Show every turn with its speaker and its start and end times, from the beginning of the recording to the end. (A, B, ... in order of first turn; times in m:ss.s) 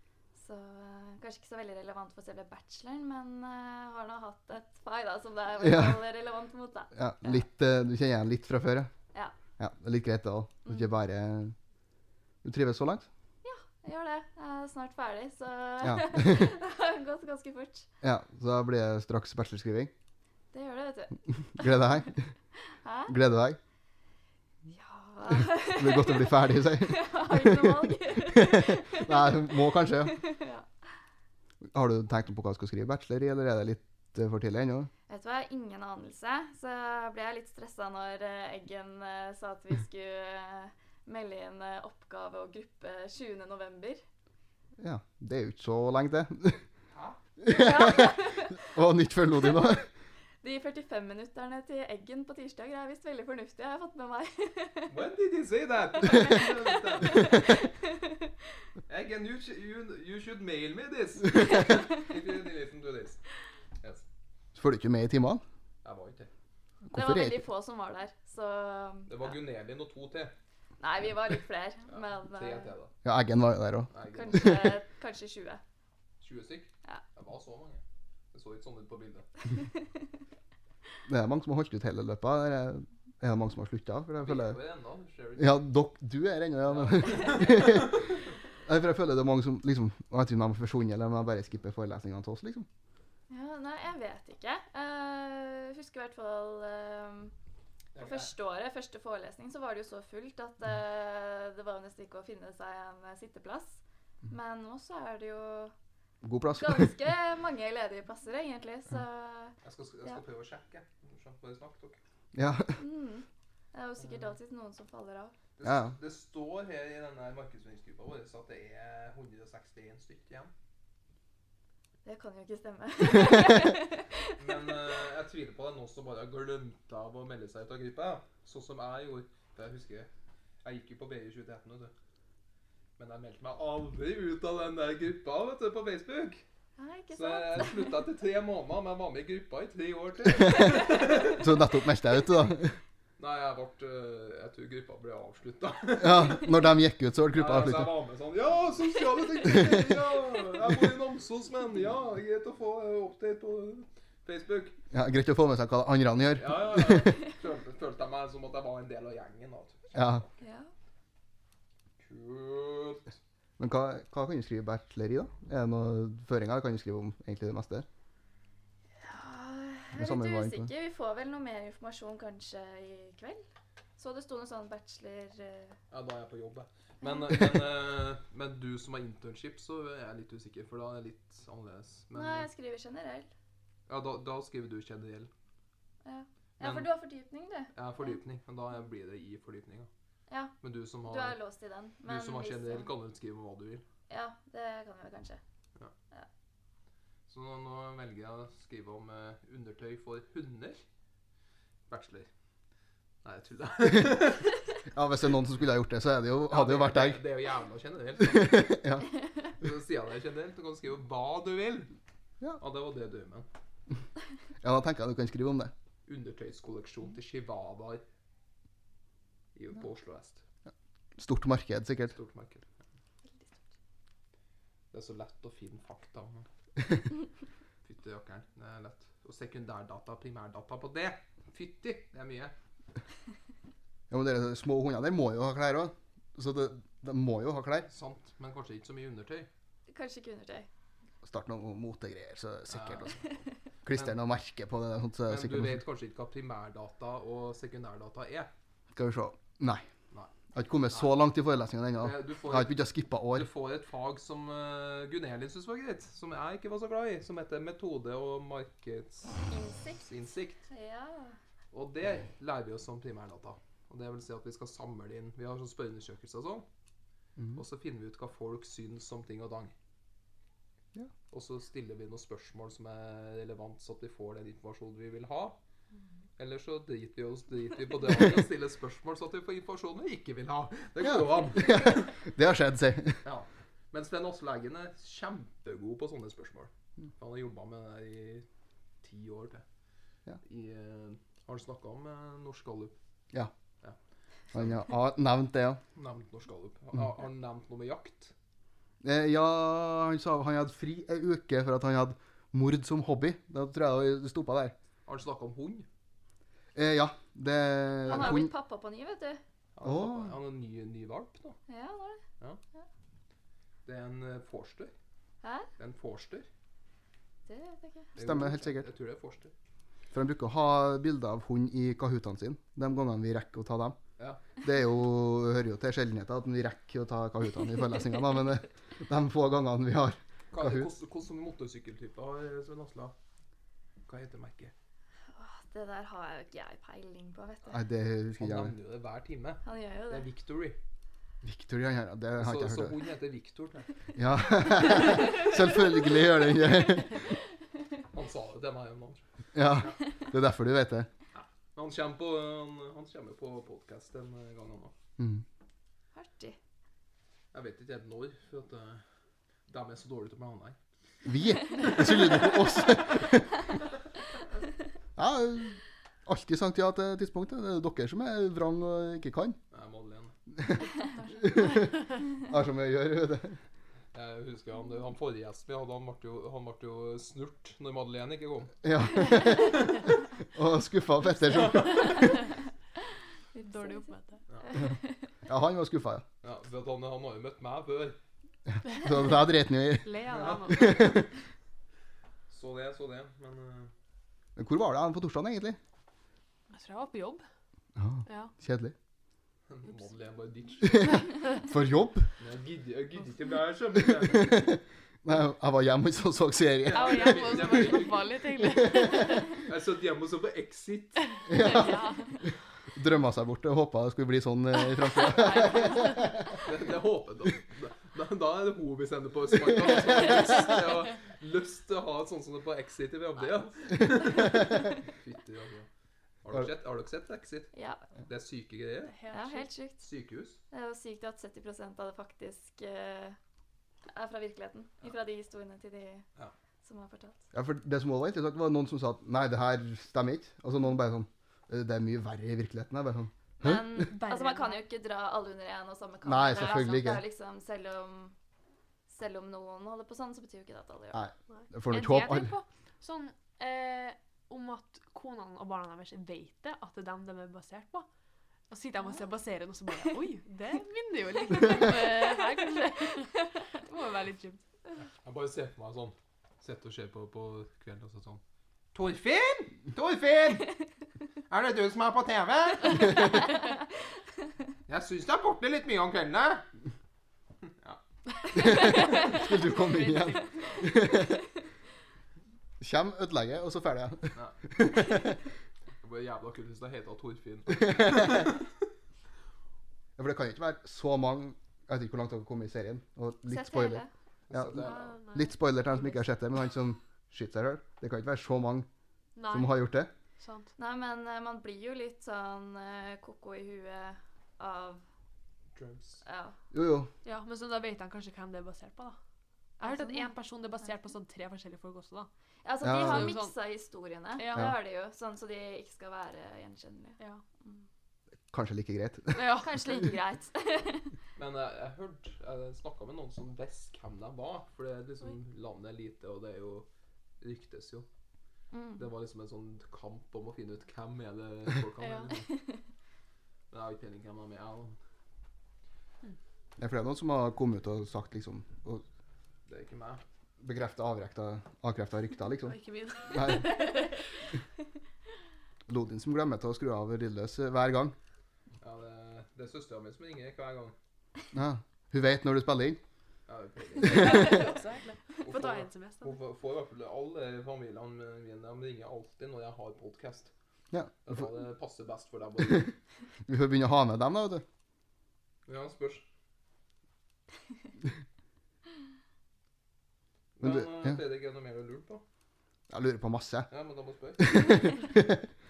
0:00.3-0:07.4 A
0:05.6-0:06.0 B
0:06.9-0:08.9 B
0:09.6-0:11.6 B
0:12.4-0:13.1 B
0:13.4-0:17.9 A
0:15.8-0:16.5 B
0:18.0-0:19.9 B
0:20.5-0:21.8 A
0:21.5-0:22.3 B
0:22.8-0:23.2 A
0:23.1-0:23.6 B
0:24.7-0:30.7 A
0:25.6-0:30.2 B
0:31.7-0:34.9 B
0:35.1-0:44.0 A
0:44.8-0:46.6 B
0:47.4-0:49.9 B
0:47.5-0:48.7 A
0:50.4-0:55.0 A
0:54.9-0:57.6 C
0:56.0-0:58.6 A
0:58.9-1:03.2 C
1:01.4-1:01.9 A
1:03.8-1:04.0 C
1:04.6-1:05.4 B
1:05.8-1:06.3 C
1:06.8-1:07.4 B
1:06.9-1:09.4 A
1:09.1-1:10.3 C
1:10.8-1:12.8 A
1:11.9-1:12.9 C
1:13.0-1:14.6 B
1:13.9-1:14.5 C
1:14.1-1:15.6 A
1:16.2-1:19.5 C
1:19.5-1:19.9 A
1:21.1-1:24.6 B
1:24.2-1:25.6 C
1:25.4-1:28.0 B
1:26.7-1:28.1 C
1:28.6-1:32.7 B
1:33.3-1:37.4 A
1:38.0-1:38.3 C
1:38.0-1:45.7 A
1:46.2-1:46.9 B
1:46.6-1:50.2 A
1:49.6-1:52.0 C
1:52.3-1:52.8 B
1:52.8-1:55.4 A
1:54.0-1:54.3 C
1:55.6-2:00.5 C
1:55.6-1:55.9 B
2:02.0-2:04.8 A
2:04.4-2:10.1 C
2:10.6-2:11.9 C
2:13.0-2:16.4 C
2:16.8-2:18.0 A
2:17.1-2:21.5 C
2:20.4-2:22.8 B
2:23.2-2:26.5 C
2:26.0-2:27.9 B
2:27.3-2:34.8 C
2:29.4-2:29.9 B
2:34.9-2:37.2 B
2:36.4-2:40.3 C
2:39.9-2:40.2 B
2:40.4-2:40.7 A
2:42.0-2:43.1 C
2:43.6-2:47.9 B
2:49.0-2:53.4 A
2:49.9-2:50.7 B
2:54.0-2:55.8 A
2:55.9-3:02.5 C
3:02.1-3:03.3 A
3:03.9-3:05.3 C
3:06.0-3:08.2 A
3:06.6-3:06.9 C
3:07.7-3:09.9 C
3:10.3-3:12.9 A
3:10.6-3:11.4 C
3:12.0-3:13.8 C
3:14.1-3:15.4 A
3:17.3-3:20.8 C
3:21.9-3:22.3 C
3:23.2-3:24.5 C
3:24.9-3:27.2 B
3:26.5-3:28.8 C
3:28.2-3:29.1 B
3:29.6-3:31.9 C
3:32.6-3:33.5 C
3:34.6-3:35.7 B
3:36.1-3:38.0 C
3:39.6-3:40.4 C
3:41.2-3:42.2 B
3:42.1-3:42.7 C
3:43.3-3:43.6 A
3:44.9-3:46.5 C
3:47.8-3:52.5 C
3:54.1-3:57.9 B
3:57.9-3:59.5 C
3:59.9-4:00.7 A
4:01.2-4:03.2 B
4:02.7-4:03.2 C
4:03.8-4:05.8 B
4:05.3-4:08.5 C
4:09.0-4:09.8 B
4:10.5-4:13.5 B
4:12.0-4:12.7 C
4:13.3-4:19.5 C
4:19.5-4:20.1 A
4:20.0-4:20.6 C
4:20.7-4:21.4 A
4:21.7-4:26.7 C
4:27.4-4:27.6 B
4:27.6-4:29.7 C
4:31.3-4:35.6 C
4:36.4-4:42.1 C
4:41.0-4:43.2 B
4:43.2-4:48.5 C
4:49.0-4:49.6 C
4:50.4-4:53.0 C
4:54.5-4:55.8 B
4:56.0-4:58.3 C
4:59.0-5:04.8 B
5:05.1-5:05.9 C
5:06.8-5:08.5 B
5:08.1-5:09.4 A
5:08.1-5:08.4 C
5:09.8-5:11.6 C
5:09.8-5:10.4 B
5:11.7-5:12.2 A
5:13.8-5:14.9 C
5:15.4-5:15.7 A
5:15.8-5:16.5 C
5:17.5-5:18.5 A
5:18.2-5:19.5 C
5:18.2-5:18.9 B
5:20.1-5:24.0 B
5:24.6-5:30.9 B
5:30.5-5:33.2 C
5:34.1-5:34.7 C
5:35.3-5:37.9 A
5:37.7-5:38.7 B
5:38.4-5:40.8 C
5:39.6-5:40.3 A
5:41.4-5:43.0 B
5:42.4-5:44.0 C
5:44.2-5:47.2 B
5:45.0-5:45.5 A
5:48.1-5:50.0 C
5:49.5-5:51.1 B
5:51.3-5:54.9 C
5:55.2-5:55.4 B
5:56.1-5:56.6 A
5:57.5-5:59.0 C
5:59.7-6:00.8 C
6:01.2-6:03.6 B
6:01.9-6:02.2 C
6:05.2-6:09.6 B
6:09.7-6:10.3 C
6:10.6-6:10.8 B
6:10.9-6:11.8 A
6:11.4-6:13.6 B
6:14.1-6:18.8 C
6:18.8-6:22.2 B
6:21.4-6:22.4 C
6:22.2-6:22.5 A
6:23.5-6:24.1 A
6:23.6-6:24.8 D
6:24.5-6:24.8 C
6:24.8-6:25.2 A
6:25.5-6:26.2 B
6:26.4-6:28.2 C
6:28.9-6:31.3 B
6:30.0-6:31.0 D
6:30.3-6:31.0 C
6:32.5-6:33.9 C
6:34.6-6:35.8 B
6:36.7-6:37.4 D
6:38.0-6:38.9 B
6:38.3-6:38.5 D
6:39.7-6:41.3 C
6:40.9-6:42.3 B
6:42.4-6:44.8 C
6:44.0-6:48.0 B
6:46.8-6:48.4 C
6:46.9-6:49.6 D
6:48.6-6:49.0 B
6:49.6-6:51.8 C
6:51.4-6:52.6 D
6:51.5-6:56.5 B
6:55.0-6:56.2 D
6:55.6-6:55.9 A
6:56.6-7:05.9 C
6:59.8-7:00.4 B
7:06.4-7:09.2 C
7:07.7-7:08.1 A
7:09.0-7:09.7 D
7:09.3-7:10.0 A
7:10.0-7:10.6 C
7:10.7-7:13.4 A
7:14.1-7:16.3 A
7:16.8-7:17.4 A
7:17.5-7:24.1 B
7:23.6-7:28.4 A
7:24.1-7:24.8 D
7:26.2-7:27.2 B
7:29.1-7:31.2 A
7:31.1-7:32.5 B
7:31.5-7:38.1 D
7:38.7-7:44.6 D
7:45.1-7:48.4 C
7:48.9-7:50.8 C
7:51.5-7:53.5 C
7:54.9-7:56.6 C
7:57.6-7:58.0 C
7:58.5-7:58.8 C
7:58.6-8:01.4 B
7:58.6-8:00.9 D
7:58.6-7:59.4 A
8:02.8-8:05.3 B
8:06.0-8:08.7 C
8:07.8-8:08.5 B
8:10.2-8:18.9 B
8:13.5-8:14.1 A
8:14.5-8:15.2 C
8:14.7-8:16.4 D
8:19.4-8:19.8 D
8:19.5-8:20.1 B
8:20.4-8:20.7 D
8:20.8-8:25.0 A
8:25.8-8:26.2 C
8:26.2-8:26.6 A
8:26.7-8:27.1 B
8:27.2-8:29.2 D
8:29.8-8:32.3 D
8:29.8-8:30.3 A
8:32.6-8:37.9 A
8:32.8-8:33.4 B
8:32.9-8:33.6 D
8:34.4-8:34.7 D
8:38.5-8:40.0 B
8:39.4-8:41.2 A
8:41.4-8:46.9 C
8:47.4-8:48.1 C
8:48.7-8:49.0 A
8:49.0-8:52.5 C
8:52.0-8:52.4 D
8:52.3-8:52.8 A
8:53.7-8:55.0 C
8:56.8-8:59.0 B
8:59.7-9:00.2 C
9:00.6-9:03.8 B
9:02.6-9:04.2 D
9:05.9-9:08.2 B
9:08.8-9:11.0 C
9:11.5-9:13.0 B
9:13.5-9:14.7 C
9:14.0-9:16.4 D
9:14.0-9:14.4 B
9:15.4-9:20.5 C
9:20.9-9:21.5 B
9:21.2-9:22.9 C
9:22.6-9:22.9 B
9:23.4-9:24.6 B
9:25.7-9:26.2 C
9:30.6-9:32.2 C
9:30.6-9:31.2 B
9:32.9-9:33.7 B
9:33.7-9:34.8 C
9:34.4-9:35.5 B